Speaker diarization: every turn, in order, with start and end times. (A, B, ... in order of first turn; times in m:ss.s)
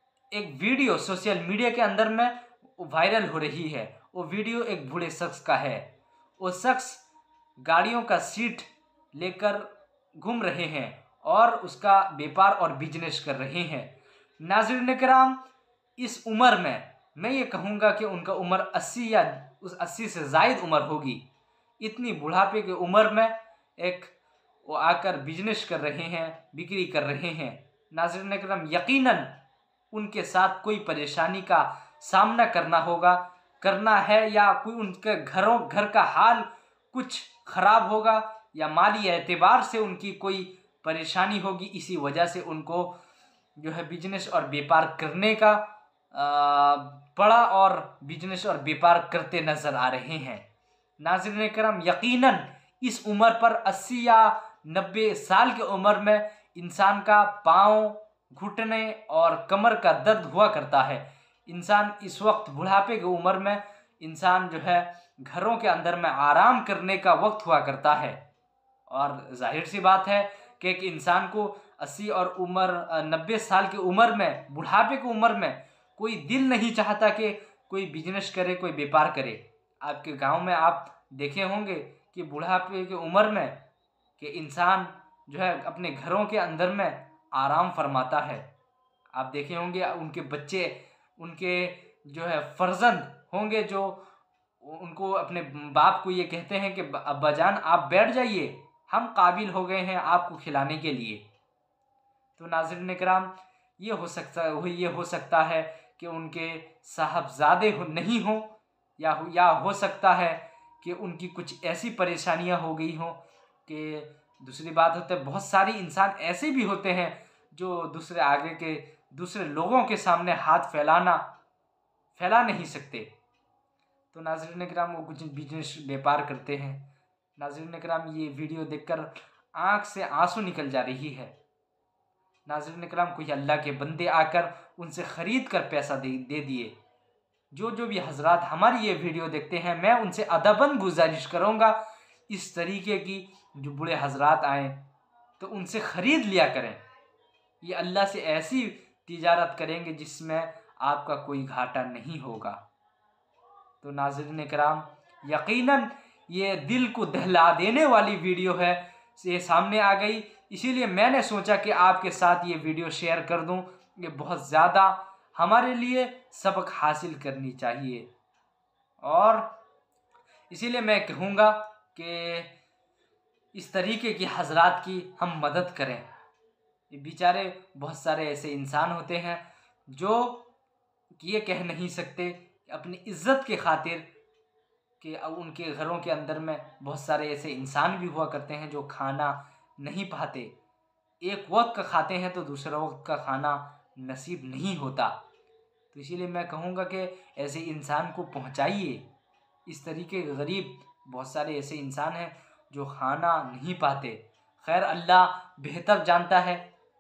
0:00.3-0:05.9 A
0:06.4-0:07.0 A
0:07.6-0:15.4 A
0:16.0-0:21.2 A
0:21.8-0:24.1 A
0:24.6-0:29.4 A
0:29.9-0:43.0 A
0:43.6-0:50.4 A
0:51.0-1:08.2 A
1:08.9-1:23.6 A
1:24.2-1:28.5 A
1:29.1-1:34.0 A
1:34.6-1:41.2 A
1:42.4-2:01.2 A
2:02.2-2:03.1 A
2:04.1-2:11.4 A
2:12.5-2:16.8 A
2:17.5-2:24.8 A
2:25.4-2:26.8 A
2:27.6-2:32.6 A
2:33.8-2:48.1 A
2:49.0-2:49.5 A
2:50.5-2:52.5 A
2:53.5-2:56.1 A
2:56.9-3:00.5 A
3:01.2-3:04.1 A
3:05.0-3:10.6 A
3:11.2-3:15.2 A
3:15.9-3:19.1 A
3:19.7-3:26.7 A